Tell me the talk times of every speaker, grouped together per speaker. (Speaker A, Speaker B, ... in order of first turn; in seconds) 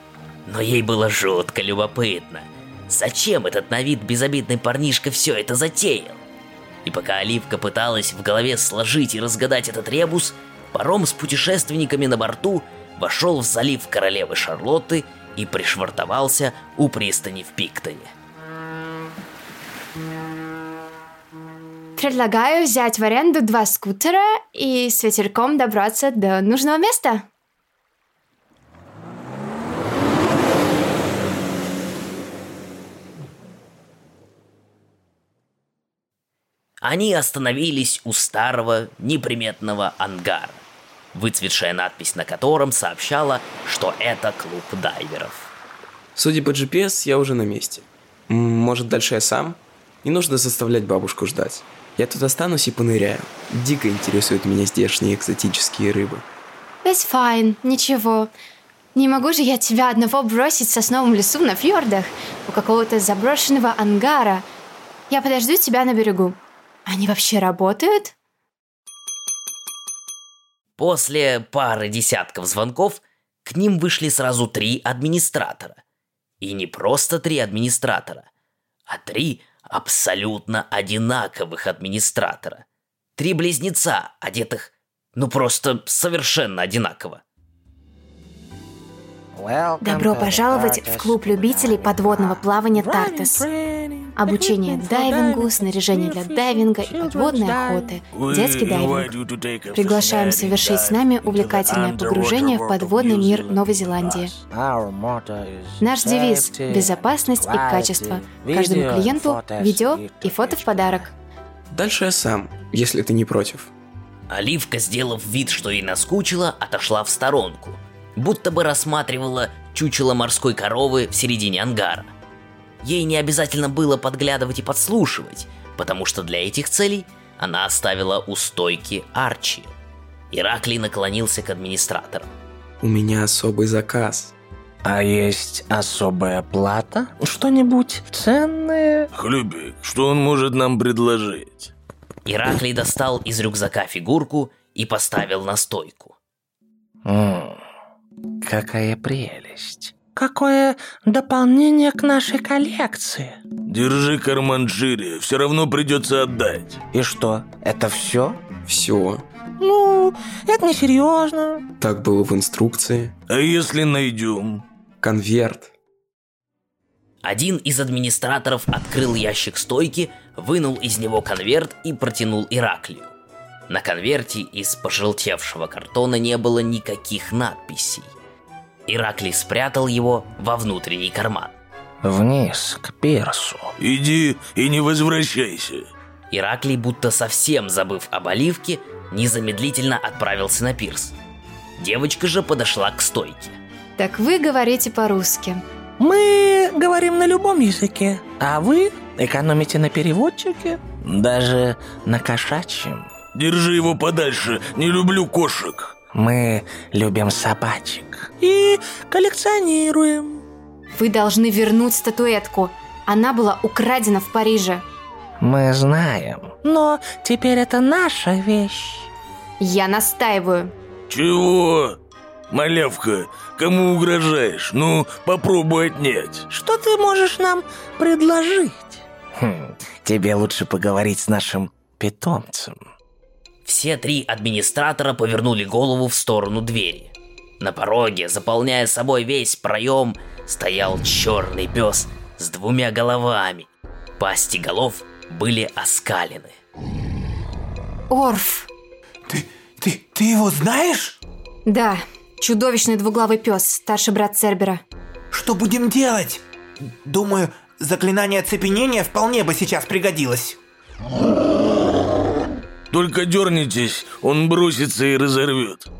Speaker A: 0.5-6.2, 6.8-18.1, 36.8-45.5, 70.8-75.8, 76.4-78.2, 78.9-82.6, 83.2-87.2, 114.3-122.1, 122.8-129.7, 130.3-132.3, 142.2-146.2, 167.2-173.1, 173.7-178.1, 178.9-181.6, 186.3-191.1, 191.8-193.6, 233.6-243.7, 244.2-246.6
Speaker B: 22.0-27.3, 56.8-58.3, 58.9-64.5, 65.1-68.1, 89.8-93.4, 94.2-99.1, 99.7-104.3, 105.8-111.1, 194.0-195.6, 210.9-214.8, 219.6-220.7, 248.1-248.7, 251.7-254.8
Speaker C: 46.1-56.2, 111.7-113.7, 132.8-134.3, 158.7-159.2, 161.8-163.1, 165.0-165.7
Speaker D: 89.3-97.9, 104.3-111.1, 134.8-139.1, 147.0-147.6, 148.4-153.4, 156.9-158.4, 159.6-161.6, 182.0-183.7, 196.0-203.1, 206.1-210.4, 215.4-219.1, 226.5-232.8
Speaker E: 98.1-104.2, 139.1-141.7, 153.6-156.8, 163.3-164.6, 183.8-185.9, 203.3-206.0, 221.1-222.0, 222.5-226.4, 262.9-265.9
Speaker F: 249.3-251.2, 255.3-260.6